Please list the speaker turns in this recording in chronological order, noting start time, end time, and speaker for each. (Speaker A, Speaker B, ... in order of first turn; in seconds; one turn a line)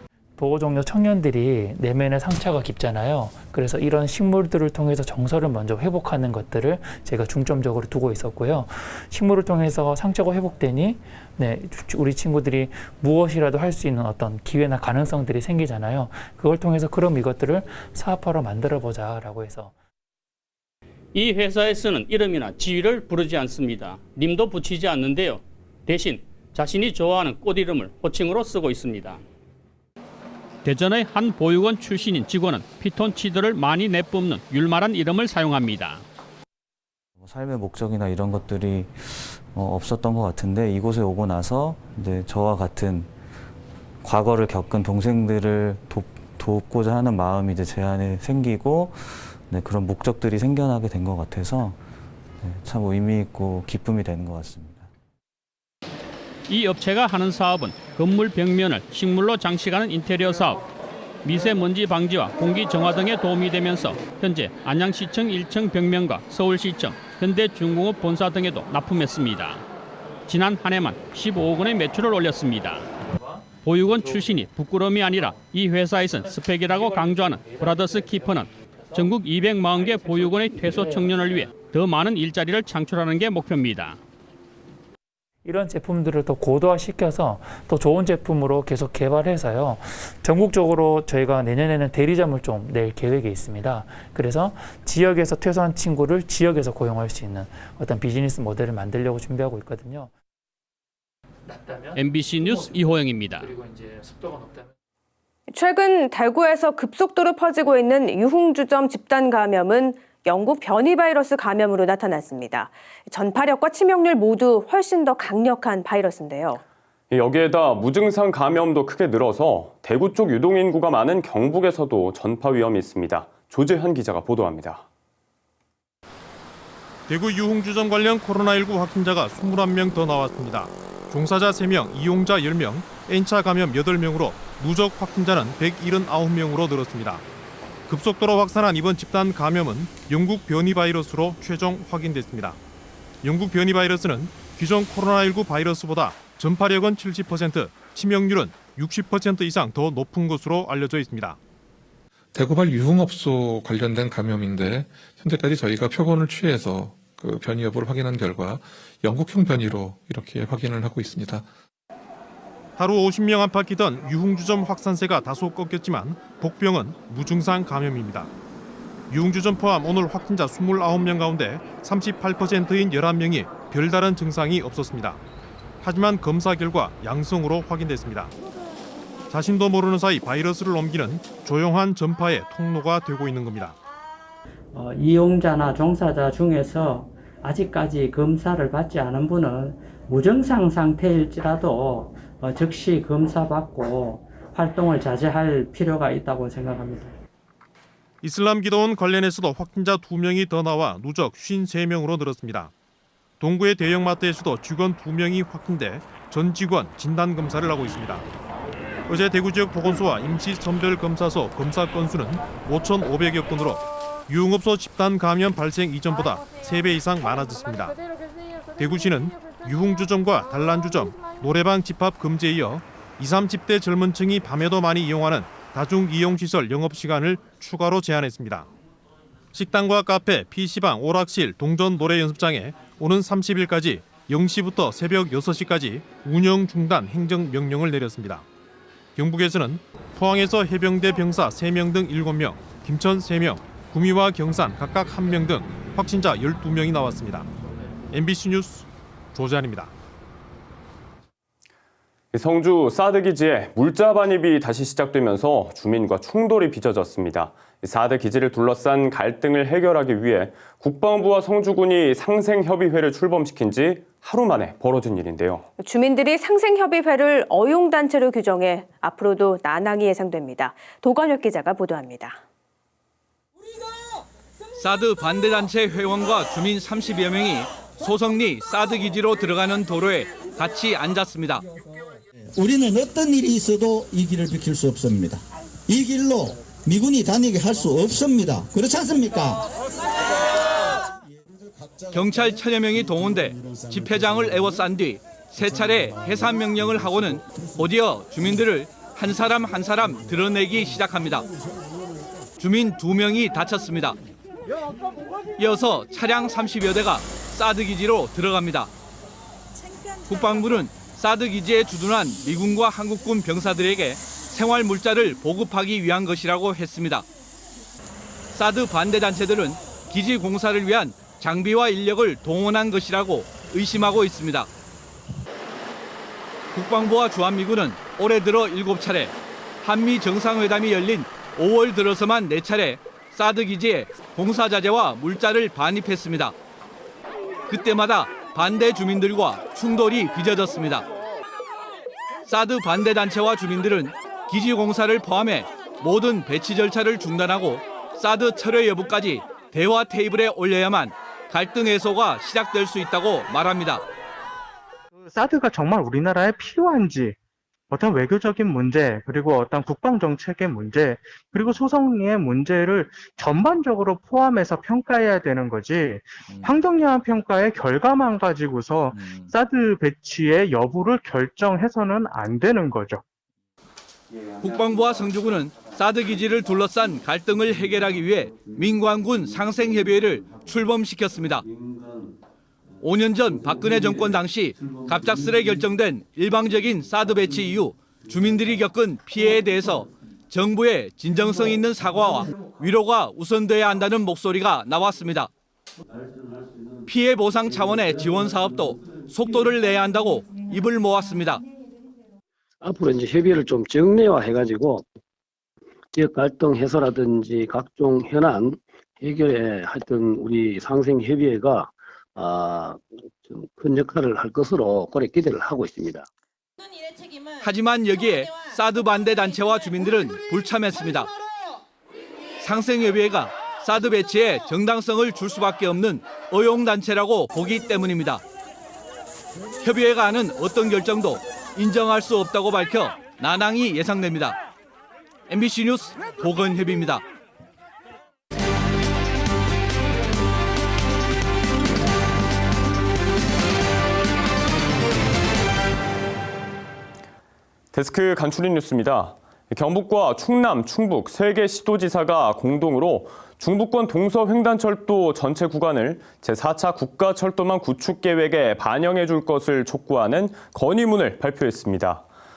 Speaker A: 0.4-19.8
Speaker B: 21.1-29.2
Speaker B: 30.6-36.0
Speaker C: 37.2-43.1
Speaker C: 44.0-51.8
Speaker C: 52.4-54.9
Speaker B: 56.5-60.6
Speaker B: 61.2-69.6
Speaker B: 70.3-72.9
Speaker B: 73.6-84.0
Speaker A: 80.5-81.1
Speaker A: 85.5-100.1
Speaker A: 101.5-104.7
Speaker B: 102.0-103.5
Speaker D: 105.5-116.6
Speaker E: 117.1-124.8
Speaker F: 127.1-137.2
Speaker F: 137.9-142.6
Speaker F: 143.2-151.4
Speaker G: 152.3-161.5
Speaker F: 162.8-168.3
Speaker F: 169.1-175.2
Speaker F: 175.8-178.3
Speaker F: 179.3-183.8
Speaker H: 184.8-197.1
Speaker F: 198.2-202.7
Speaker F: 203.4-208.2
Speaker F: 209.1-218.0
Speaker F: 218.8-228.7
Speaker F: 229.5-238.4
Speaker F: 239.2-247.5
Speaker F: 248.1-249.9
Speaker E: 252.3-265.7
Speaker D: 265.8-272.4
Speaker I: 274.8-281.6
Speaker J: 282.6-289.6
Speaker I: 292.1-301.5
Speaker I: 302.6-304.2
Speaker I: 305.6-308.9
Speaker I: 310.3-317.3
Speaker I: 318.5-324.7
Speaker I: 326.8-336.6
Speaker I: 337.7-341.1
Speaker I: 342.5-354.0
Speaker K: 355.1-357.4
Speaker K: 357.9-373.2
Speaker I: 374.6-381.7
Speaker I: 383.0-395.5
Speaker I: 397.1-401.6
Speaker L: 402.8-405.1
Speaker L: 406.1-416.3
Speaker I: 417.6-421.3
Speaker I: 422.6-428.4
Speaker I: 429.8-434.6
Speaker I: 435.5-437.2
Speaker E: 447.9-462.2